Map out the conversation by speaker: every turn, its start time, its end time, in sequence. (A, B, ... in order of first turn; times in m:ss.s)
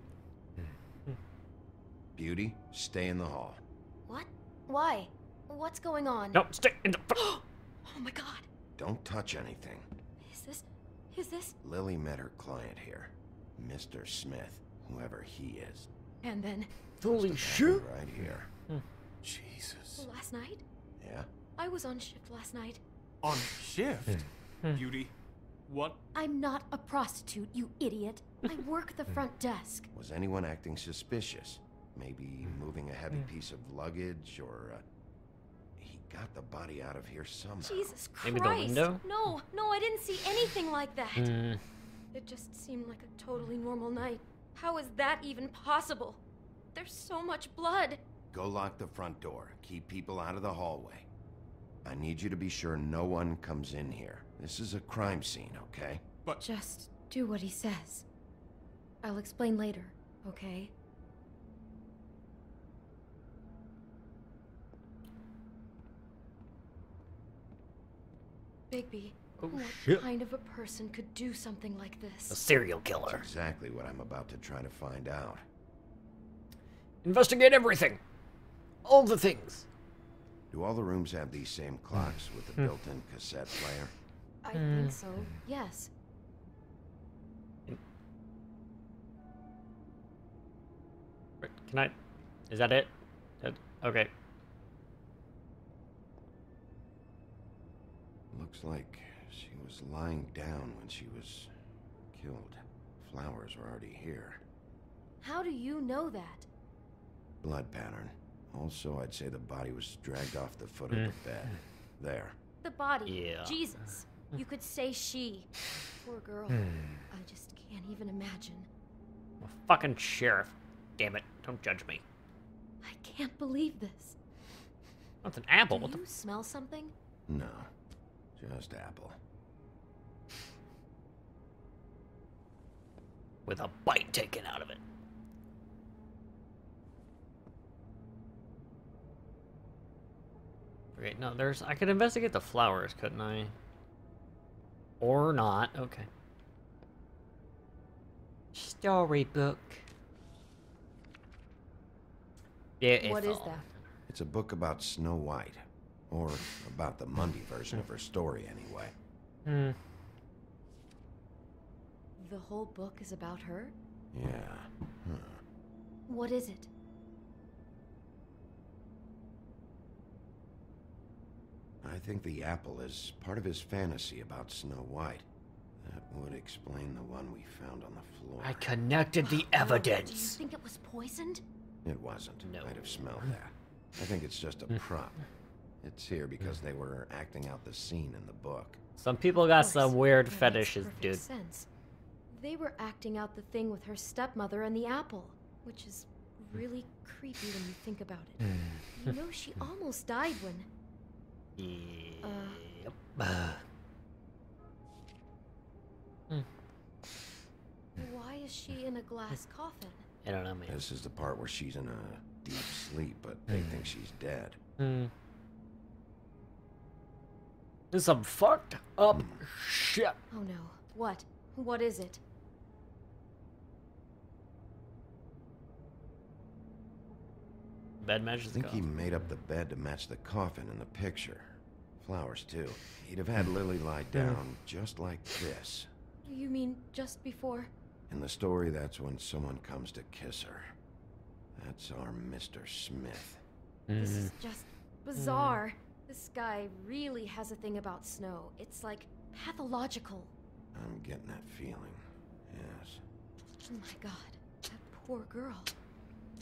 0:02.2-0:03.6 A
0:04.1-0:06.4 B
0:06.3-0:07.2 C
0:07.1-0:08.5 B
0:08.8-0:09.9 A
0:10.2-0:11.6 B
0:11.6-0:15.9 A
0:16.2-0:16.7 B
0:17.0-0:17.9 C
0:17.1-0:18.5 A
0:19.2-0:20.1 D
0:20.0-0:20.6 B
0:21.0-0:21.3 A
0:21.6-0:22.8 B
0:23.2-0:25.1 D
0:24.2-0:24.8 C
0:25.7-0:26.0 D
0:26.1-0:29.9 B
0:29.9-0:34.8 A
0:35.8-0:38.0 A
0:37.6-0:41.4 B
0:38.2-0:39.0 C
0:41.2-0:41.6 C
0:42.1-0:46.2 B
0:46.7-0:48.0 B
0:48.3-0:51.1 A
0:51.8-0:56.0 A
0:56.4-0:58.1 B
0:59.0-1:00.7 B
1:08.7-1:12.4 B
1:09.4-1:10.0 C
1:12.3-1:13.3 C
1:13.1-1:15.4 A
1:17.0-1:18.0 C
1:18.8-1:19.6 C
1:20.5-1:23.9 A
1:24.4-1:25.9 B
1:24.5-1:25.0 C
1:31.4-1:31.9 C
1:32.5-1:34.1 C
1:38.3-1:41.5 A
1:42.1-1:44.4 A
1:45.2-1:46.5 B
1:47.4-1:52.4 A
1:50.9-1:51.6 C
1:52.6-1:58.7 B
1:53.1-1:53.6 C
1:56.5-1:57.0 C
1:59.4-2:02.0 C
2:02.8-2:04.2 B
2:05.2-2:06.0 C
2:05.7-2:06.9 B
2:07.3-2:07.7 A
2:08.4-2:09.2 A
2:13.5-2:14.8 C
2:21.0-2:23.5 C
2:25.0-2:26.1 C
2:28.5-2:29.8 C
2:32.8-2:33.6 C
2:33.0-2:33.7 B
2:34.1-2:39.0 A
2:39.5-2:39.8 C
2:42.2-2:43.8 B
2:44.1-2:45.4 A
2:46.1-2:46.7 B
2:51.8-2:55.2 A
2:55.8-2:58.7 A
2:58.4-3:00.4 C
2:59.2-3:01.4 B
3:01.8-3:05.2 A
3:02.4-3:03.3 C
3:05.8-3:08.8 A
3:09.0-3:11.2 C
3:09.4-3:11.7 B
3:12.3-3:18.4 B
3:18.4-3:19.1 C
3:19.0-3:20.7 B
3:21.6-3:23.6 C
3:22.2-3:22.6 B
3:28.0-3:30.1 B
3:30.2-3:30.8 C
3:30.7-3:34.6 A
3:33.5-3:33.8 C
3:34.8-3:35.1 C
3:37.9-3:40.2 C
3:39.1-3:39.4 A
3:40.3-3:42.2 B
3:48.0-3:48.9 C
3:48.5-3:55.9 A
3:54.1-3:54.4 C
3:56.2-3:57.7 B
3:58.1-4:00.7 A
4:01.6-4:03.4 A
4:03.9-4:04.3 C
4:04.0-4:10.3 B
4:05.1-4:05.6 C
4:10.7-4:13.0 A
4:13.7-4:15.7 B